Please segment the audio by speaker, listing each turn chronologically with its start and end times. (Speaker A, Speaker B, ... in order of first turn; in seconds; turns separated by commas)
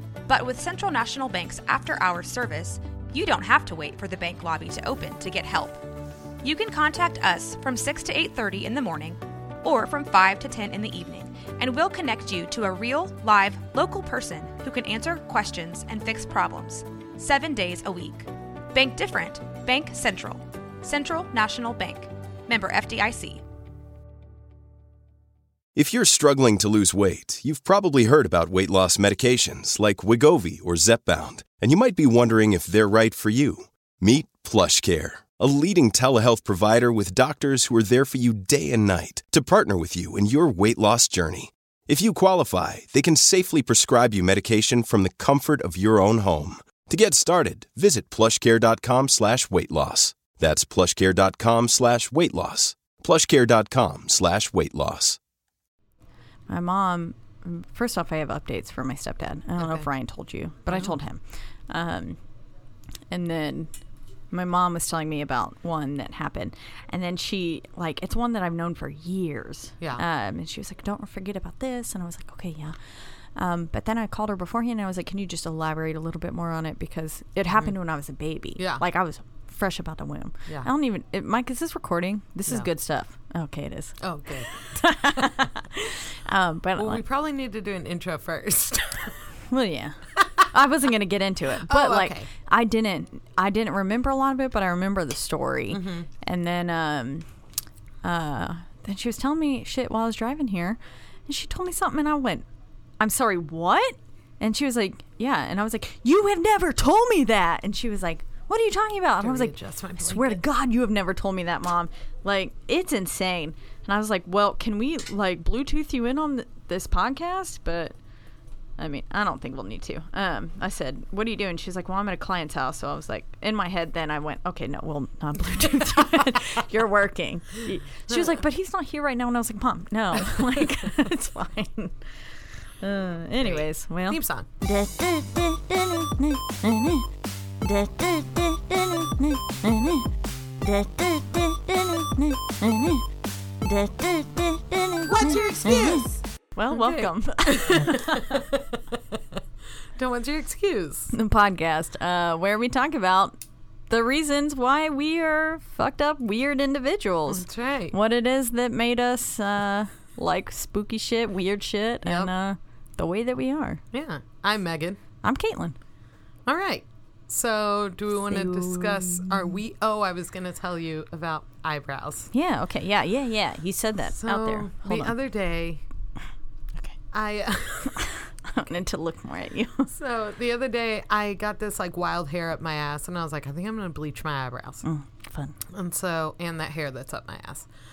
Speaker A: 0.3-5.8, Speaker A: 6.4-23.4, Speaker B: 25.7-55.2, Speaker C: 56.5-62.2, Speaker D: 59.6-59.9, Speaker D: 60.7-60.9, Speaker C: 63.1-63.7, Speaker C: 64.3-87.0, Speaker D: 78.6-78.8, Speaker D: 84.0-85.2, Speaker D: 86.8-89.3, Speaker C: 89.5-97.3, Speaker D: 91.6-92.3, Speaker D: 95.7-96.1, Speaker C: 98.0-102.4, Speaker C: 103.0-117.9, Speaker D: 109.2-110.4, Speaker C: 118.8-137.1, Speaker D: 128.1-128.3, Speaker D: 130.1-130.4, Speaker D: 133.4-134.5, Speaker C: 137.6-140.1, Speaker C: 140.6-143.1, Speaker C: 143.6-146.0, Speaker D: 145.0-149.4, Speaker C: 146.6-148.2, Speaker D: 149.9-151.1, Speaker C: 151.1-153.4, Speaker C: 153.9-163.8, Speaker D: 157.3-158.0, Speaker D: 162.0-162.3, Speaker D: 163.9-165.0, Speaker C: 165.2-165.8, Speaker D: 166.4-172.3, Speaker C: 168.3-169.6, Speaker C: 172.3-175.2, Speaker D: 174.1-175.8, Speaker D: 177.1-178.7, Speaker C: 178.5-179.9, Speaker D: 179.9-184.8, Speaker C: 184.8-185.6, Speaker D: 185.7-187.7